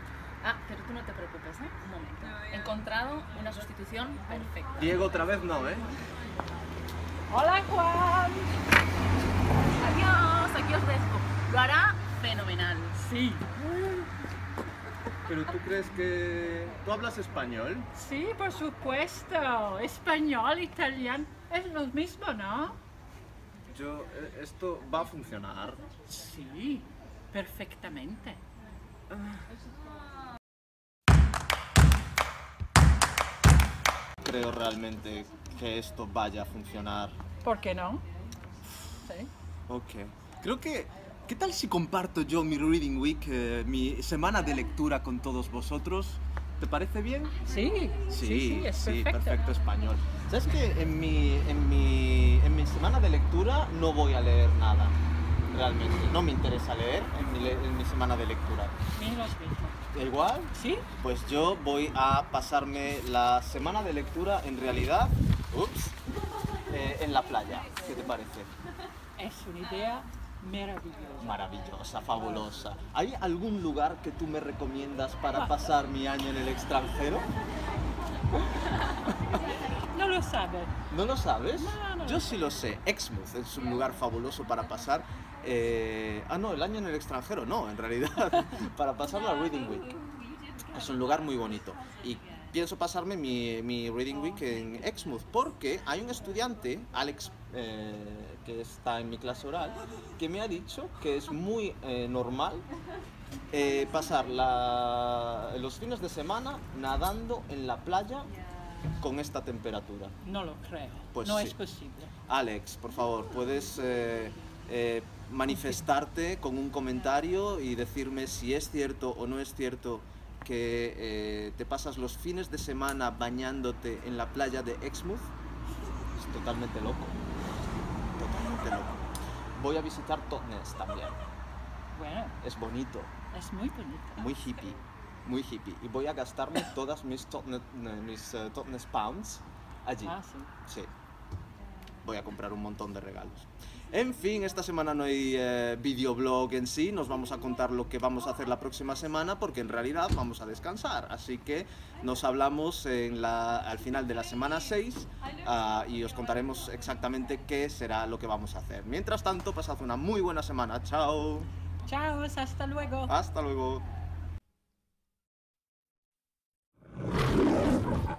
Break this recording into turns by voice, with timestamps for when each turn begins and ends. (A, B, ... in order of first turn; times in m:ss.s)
0:00.4-0:04.8 A
0:04.8-0:05.9 B
0:07.3-0:08.6 C
0:09.7-0:13.0 A
0:13.0-0:13.5 C
0:15.3-0:17.9 B
0:17.9-0:22.8 C
0:23.7-0:25.8 B
0:26.1-0:28.4 C
0:34.2-0:37.2 B
0:37.4-0:38.0 C
0:39.0-0:39.3 C
0:39.7-0:47.3 B
0:47.4-0:49.4 C
0:48.1-0:55.0 B
0:55.5-0:58.7 B
0:58.9-0:59.8 C
0:59.9-1:06.0 B
1:00.5-1:00.9 C
1:06.7-1:08.5 B
1:09.2-1:11.4 C
1:11.2-1:17.3 B
1:19.8-1:20.7 C
1:20.9-1:30.0 B
1:21.6-1:22.5 C
1:30.7-1:42.6 B
1:43.5-1:48.3 B
1:49.0-1:50.1 B
1:50.2-1:52.1 C
1:51.1-1:51.6 B
1:52.3-2:05.3 B
1:55.5-1:55.8 C
2:06.2-2:07.2 B
2:08.2-2:09.0 B
2:09.6-2:11.2 B
2:11.9-2:12.4 C
2:12.4-2:13.1 B
2:13.3-2:14.3 C
2:14.2-2:20.9 B
2:20.0-2:20.5 C
2:22.0-2:41.5 B
2:41.9-2:43.1 C
2:43.1-2:43.8 B